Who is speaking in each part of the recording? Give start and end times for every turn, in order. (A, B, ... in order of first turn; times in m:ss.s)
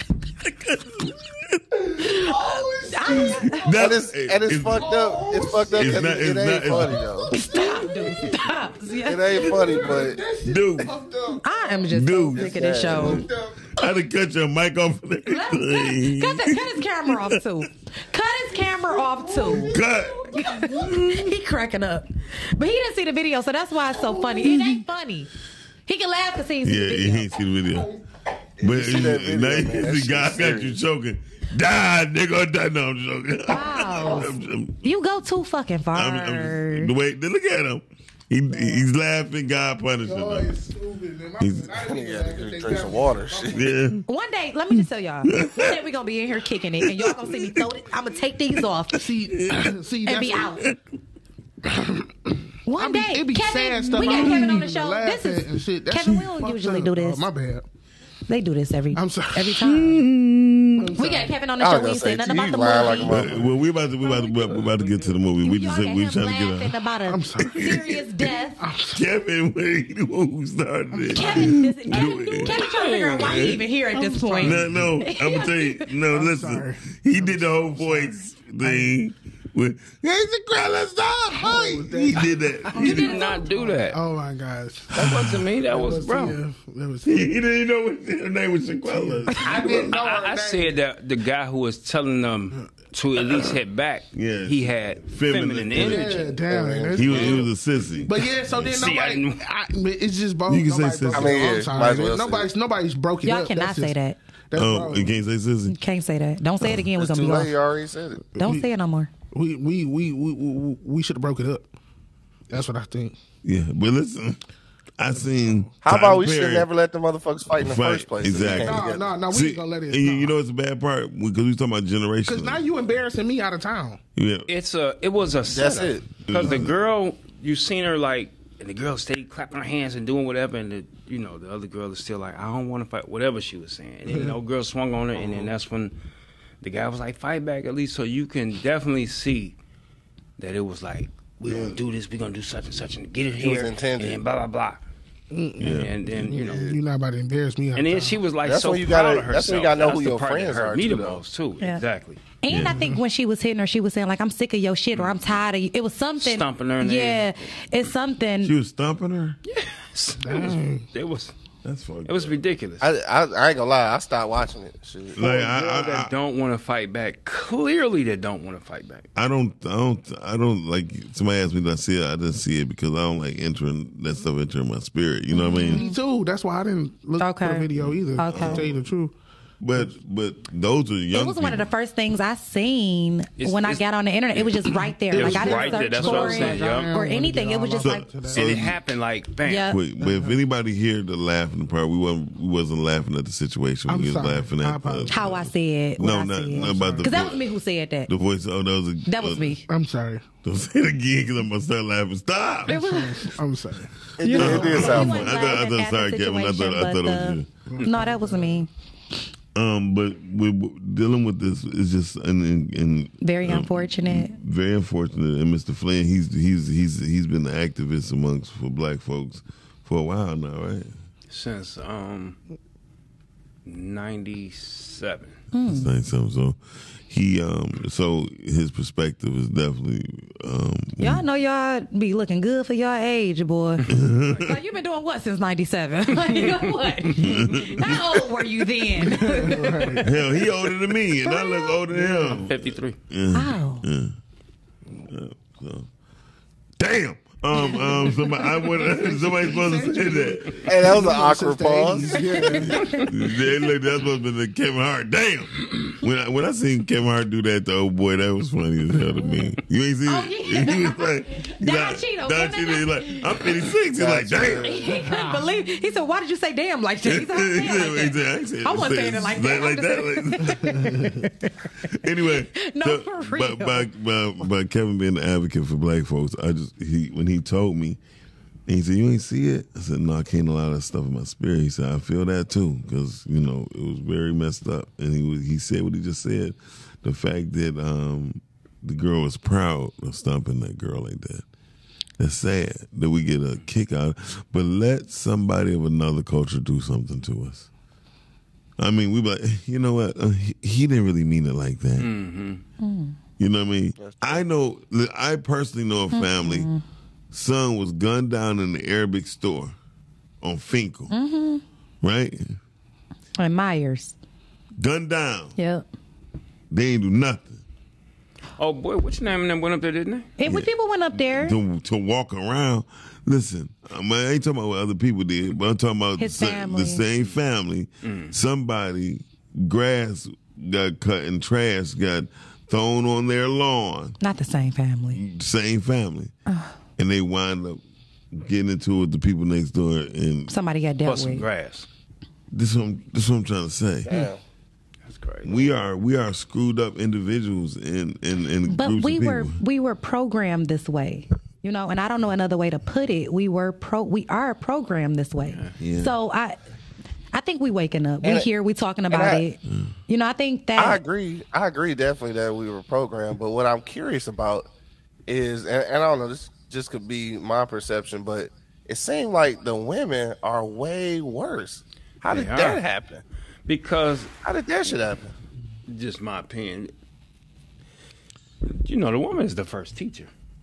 0:00.4-0:02.1 A
0:01.9-0:03.6 B
0:02.8-0:03.7 C
0:03.2-0:04.9 A
0:03.7-0:07.3 D
0:04.8-0:08.7 B
0:05.7-0:07.0 A
0:07.3-0:09.5 C
0:09.0-0:10.2 D
0:09.5-0:11.9 B
0:10.4-0:10.9 A
0:11.4-0:13.2 C
0:11.9-0:17.4 A
0:12.3-0:13.2 D
0:13.0-0:13.9 B
0:15.3-0:19.7 C
0:18.6-0:20.9 B
0:19.7-0:21.3 A
0:20.3-0:25.3 C
0:24.0-0:24.6 B
0:24.5-0:24.8 A
0:25.8-0:27.3 C
0:26.6-0:27.9 A
0:27.7-0:28.0 B
0:28.6-0:30.8 D
0:28.6-0:34.8 A
0:33.5-0:34.3 C
0:34.8-0:36.9 C
0:35.9-0:40.5 A
0:38.5-0:38.8 B
0:40.0-0:43.6 B
0:41.4-0:41.8 A
0:41.8-0:43.6 D
0:43.5-0:44.0 A
0:44.0-0:49.0 C
0:45.3-0:45.8 A
0:46.8-0:47.7 A
0:48.9-0:50.5 B
0:49.4-0:49.7 A
0:50.0-0:50.6 C
0:51.6-0:57.6 B
0:52.6-0:57.3 C
0:58.3-1:00.0 C
0:58.9-0:59.8 B
0:59.7-1:01.0 A
1:00.8-1:01.4 B
1:01.0-1:03.2 C
1:01.6-1:03.5 D
1:02.9-1:06.8 A
1:04.1-1:05.1 E
1:05.4-1:08.6 C
1:07.1-1:08.0 B
1:07.4-1:07.8 A
1:08.6-1:09.0 B
1:08.9-1:12.6 A
1:10.9-1:11.6 B
1:11.1-1:15.8 C
1:12.1-1:13.5 E
1:13.2-1:13.6 A
1:13.9-1:14.9 B
1:14.4-1:23.2 A
1:16.1-1:18.9 B
1:21.3-1:27.2 B
1:22.8-1:24.0 E
1:22.8-1:23.3 C
1:24.9-1:26.4 E
1:25.0-1:25.3 A
1:27.0-1:29.9 A
1:28.9-1:30.8 B
1:29.6-1:36.4 E
1:34.1-1:36.1 A
1:35.7-1:37.5 B
1:36.4-1:37.5 D
1:37.0-1:38.9 A
1:38.0-1:44.0 B
1:38.7-1:39.4 E
1:40.5-1:41.6 A
1:41.1-1:42.5 D
1:43.2-1:44.2 C
1:44.5-1:45.2 B
1:44.5-1:45.8 A
1:45.7-1:47.5 C
1:47.0-1:48.2 D
1:48.4-1:48.7 B
1:48.4-1:49.1 C
1:49.3-1:51.7 B
1:52.5-1:53.2 B
1:53.4-1:54.4 A
1:55.0-1:56.7 A
1:55.8-1:59.2 D
1:57.6-2:02.6 A
1:58.3-2:00.3 B
2:02.2-2:04.0 B
2:04.2-2:04.5 A
2:04.5-2:16.0 E
2:05.5-2:06.0 D
2:06.3-2:06.7 A
2:16.6-2:19.6 E
2:20.4-2:24.8 E
2:23.4-2:24.2 D
2:25.3-2:28.2 B
2:25.6-2:25.9 A
2:25.6-2:26.7 E
2:26.3-2:26.8 D
2:27.7-2:32.2 E
2:28.4-2:31.2 D
2:32.4-2:38.5 C
2:32.5-2:32.9 A
2:34.9-2:35.4 E
2:36.2-2:37.5 E
2:38.4-2:39.4 A
2:39.4-2:41.3 E
2:40.2-2:40.9 B
2:41.6-2:42.4 A
2:42.0-2:42.9 E
2:42.8-2:45.2 D
2:45.1-2:46.1 A
2:45.2-2:49.1 E
2:49.1-2:55.9 A
2:55.3-2:56.0 C
2:55.7-2:59.1 B
2:57.2-2:58.6 C
2:57.8-2:58.9 A
2:59.6-3:01.7 A
3:01.1-3:08.1 C
3:03.4-3:06.9 E
3:05.1-3:08.6 B
3:07.8-3:08.8 A
3:08.3-3:09.8 E
3:09.4-3:09.8 C
3:09.7-3:17.5 A
3:10.0-3:10.4 B
3:13.9-3:15.4 B
3:15.1-3:18.1 C
3:16.5-3:17.2 B
3:18.1-3:19.5 A
3:19.0-3:19.6 C
3:19.7-3:20.2 B
3:20.4-3:22.8 A
3:22.7-3:23.3 C
3:22.7-3:23.9 B
3:24.2-3:25.3 D
3:24.2-3:28.7 C
3:24.3-3:27.5 A
3:24.4-3:25.0 B
3:27.7-3:28.6 B
3:29.5-3:40.9 A
3:33.2-3:34.4 C
3:41.3-3:42.4 E
3:43.6-3:45.4 E
3:45.5-3:45.9 C
3:45.6-3:51.2 A
3:51.0-4:00.0 C
3:53.9-3:54.6 A
3:56.2-3:57.7 E
3:57.2-3:58.0 A
3:59.0-4:00.1 B
4:00.0-4:04.1 A
4:01.2-4:01.8 C
4:01.9-4:03.0 E
4:03.3-4:03.9 C
4:05.0-4:05.9 A
4:06.8-4:10.9 A
4:07.8-4:08.1 B
4:08.7-4:13.1 B
4:10.7-4:12.4 D
4:12.2-4:13.0 C
4:13.0-4:24.8 A
4:20.0-4:23.3 C
4:24.0-4:24.9 D
4:24.6-4:33.9 C
4:25.0-4:25.3 B
4:27.0-4:31.1 A
4:31.8-4:38.0 A
4:38.7-4:51.4 A
4:52.2-4:57.7 A
4:58.8-5:02.1 A
5:02.0-5:02.6 E
5:02.8-5:03.2 C
5:03.4-5:06.7 A
5:04.0-5:04.4 D
5:06.1-5:06.8 C
5:07.3-5:09.7 A
5:10.4-5:11.1 A
5:11.1-5:11.6 C
5:12.0-5:12.6 A
5:13.4-5:14.1 C
5:14.8-5:15.5 A
5:15.6-5:15.8 C
5:16.7-5:17.6 A
5:18.6-5:20.3 E
5:20.4-5:21.6 C
5:20.4-5:34.2 A
5:26.2-5:27.0 C
5:28.0-5:28.3 E
5:34.2-5:35.2 C
5:35.1-5:36.3 A
5:36.4-5:36.8 C
5:37.0-5:37.8 A
5:38.3-5:40.5 A
5:40.5-5:41.4 C
5:41.0-5:41.9 E
5:42.5-5:44.2 A
5:44.0-5:44.4 D
5:45.0-5:45.7 E
5:45.4-5:49.6 A
5:48.7-5:56.6 C
5:55.4-5:55.8 E
5:55.8-5:56.1 A
5:57.3-6:01.0 C
5:58.2-5:58.5 D
5:59.1-5:59.4 D
6:00.8-6:04.7 D
6:05.3-6:13.2 D
6:12.3-6:12.8 E
6:13.7-6:14.3 E
6:14.4-6:15.3 D
6:15.9-6:16.9 E
6:18.7-6:20.3 E